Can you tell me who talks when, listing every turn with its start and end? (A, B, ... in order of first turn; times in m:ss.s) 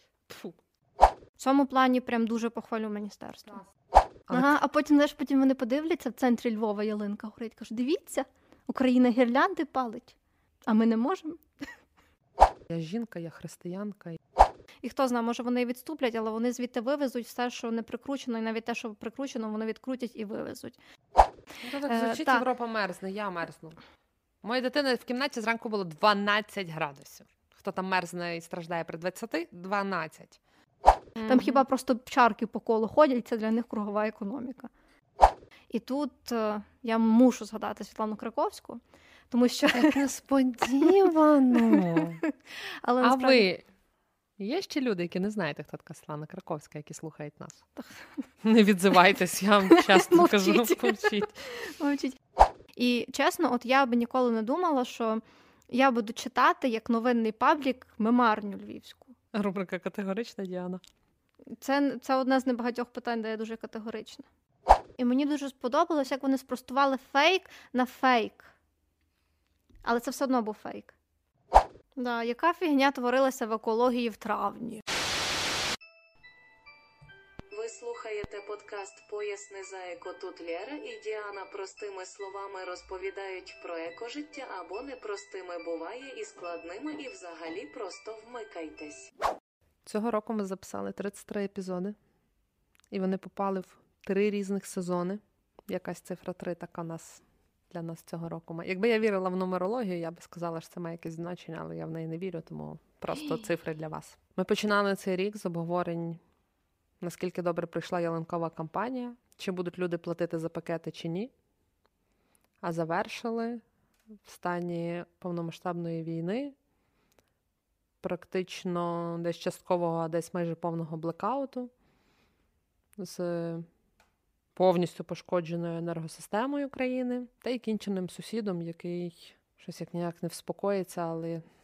0:00.3-0:00.6 A
0:01.4-0:03.6 B
0:04.3-0:04.6 A
0:04.3-0:10.2 B
0:10.7-0:11.4 B
0:12.7-0:14.2 A
0:14.8-0:20.8 B
0:21.6-0:23.8 A
0:21.8-0:22.4 B
0:24.4-0:30.4 A
0:31.2-0:31.6 A
0:31.3-0:34.7 B
0:35.7-0:40.0 B
0:39.7-0:42.2 A
0:41.6-0:43.4 B
0:43.0-0:43.6 A
0:44.4-0:47.6 A
0:48.4-0:51.4 A
0:49.7-0:52.2 B
0:52.8-0:59.1 B
0:59.3-1:00.8 A
1:01.6-1:04.3 B
1:05.0-1:08.5 B
1:09.8-1:11.0 B
1:12.0-1:14.8 B
1:17.5-1:29.1 C
1:29.8-1:32.0 A
1:32.9-1:46.2 A
1:47.0-1:51.3 A
1:52.6-1:53.6 A
1:54.2-1:56.6 A
1:58.0-2:01.7 A
2:03.0-2:03.7 A
2:04.6-2:11.4 A